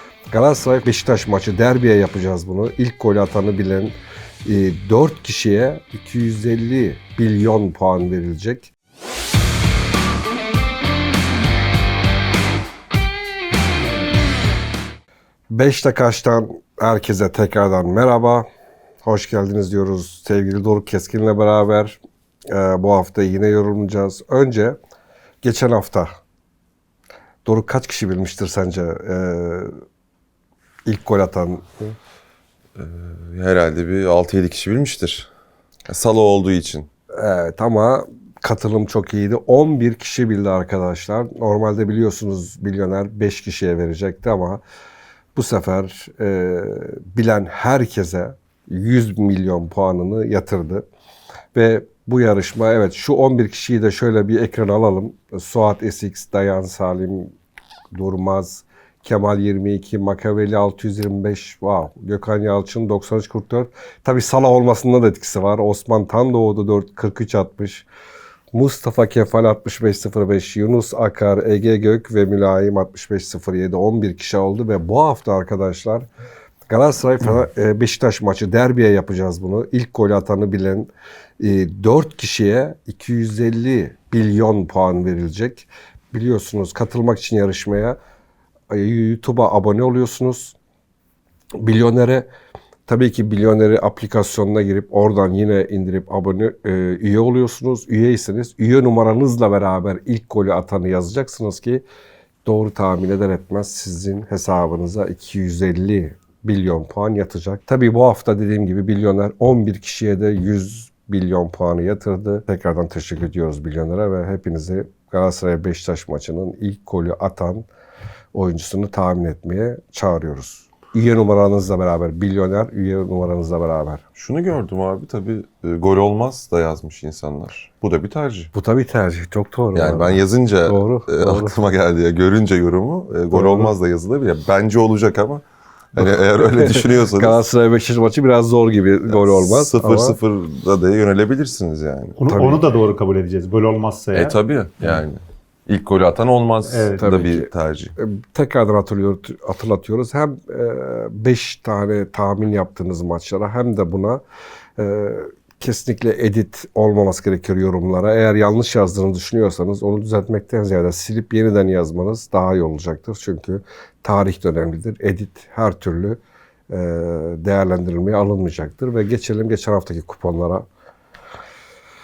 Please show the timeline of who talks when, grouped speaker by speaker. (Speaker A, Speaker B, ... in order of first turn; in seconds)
Speaker A: 0.3-8.7, 15.5-18.4, 19.0-24.8, 25.4-26.2, 27.4-29.8, 30.9-32.0, 37.1-44.6, 45.3-50.8, 51.5-57.3, 57.9-67.9, 68.5-76.1, 76.7-88.0, 88.7-90.5, 91.6-92.3, 92.9-101.8, 102.4-117.6, 118.3-124.0, 128.5-131.5, 133.3-133.7, 136.0-140.2, 142.2-142.6, 147.0-154.2, 154.8-170.7
Speaker B: 32.8-35.3, 35.9-36.9, 124.1-128.5, 129.7-135.4, 135.9-137.4, 139.1-142.2, 144.1-147.9
Speaker C: 142.2-144.4, 146.7-147.1